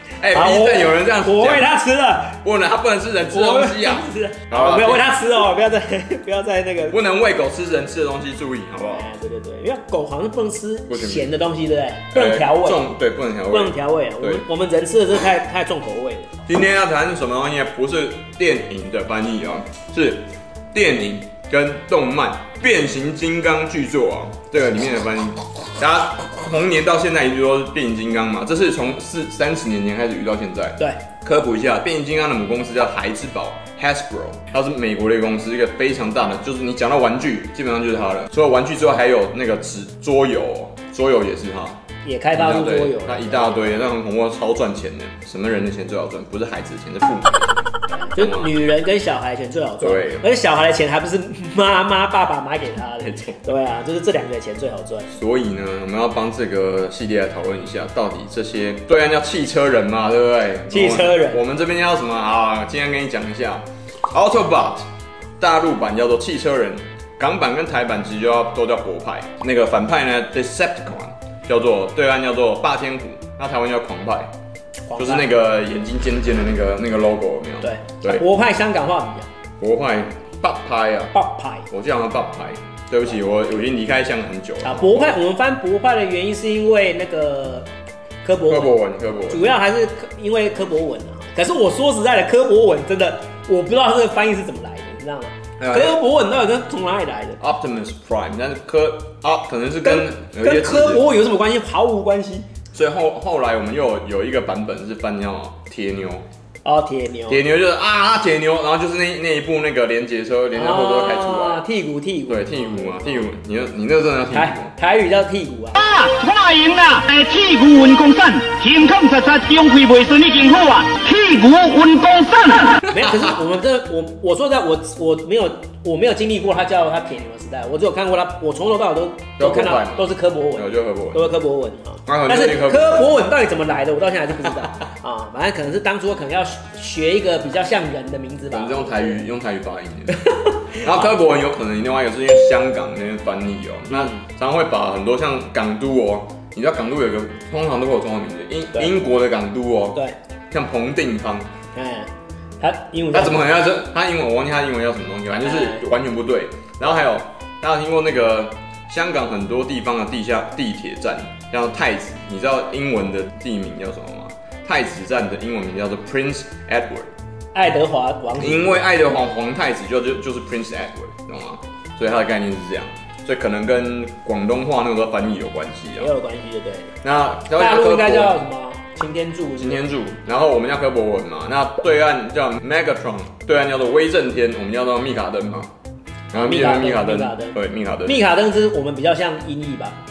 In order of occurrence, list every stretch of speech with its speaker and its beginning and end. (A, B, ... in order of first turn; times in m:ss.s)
0:00.2-0:01.7 A
0:00.3-0:02.4 B
0:02.4-0:05.2 A
0:03.3-0:07.0 B
0:06.9-0:09.1 A
0:08.9-0:12.8 B
0:10.9-0:11.3 A
0:12.1-0:14.4 A
0:13.5-0:16.3 B
0:16.4-0:48.5 A
0:42.0-0:43.8 B
0:48.0-0:55.1 B
0:49.8-0:50.3 A
0:53.0-0:53.4 A
0:55.1-1:04.8 A
1:00.7-1:01.4 B
1:05.4-1:14.3 A
1:14.9-1:15.3 B
1:15.0-1:18.2 A
1:17.6-1:19.3 B
1:19.6-1:21.1 A
1:21.1-1:21.7 B
1:21.7-1:25.2 A
1:24.6-1:27.7 B
1:28.2-1:28.7 B
1:28.5-1:29.6 A
1:29.3-1:37.4 B
1:35.6-1:36.0 A
1:37.4-1:41.1 A
1:39.8-1:42.5 B
1:42.7-1:46.2 A
1:46.6-1:47.4 B
1:47.3-1:51.6 A
1:50.5-1:53.3 B
1:52.3-1:54.7 A
1:54.3-1:56.0 B
1:55.8-2:02.8 C
2:02.8-2:19.3 B
2:09.4-2:11.4 A
2:12.0-2:13.2 A
2:18.5-2:31.5 A
2:20.3-2:20.8 B
2:23.9-2:24.2 B
2:31.7-2:32.1 B
2:32.6-2:33.5 B
2:33.1-2:47.1 A
2:35.4-2:35.8 B
2:47.5-2:49.0 B
2:48.4-2:56.1 A
2:56.0-2:56.9 B
2:57.0-2:58.4 A
2:57.5-2:59.8 B
2:59.6-3:05.7 A
3:06.3-3:08.2 A
3:06.4-3:10.0 B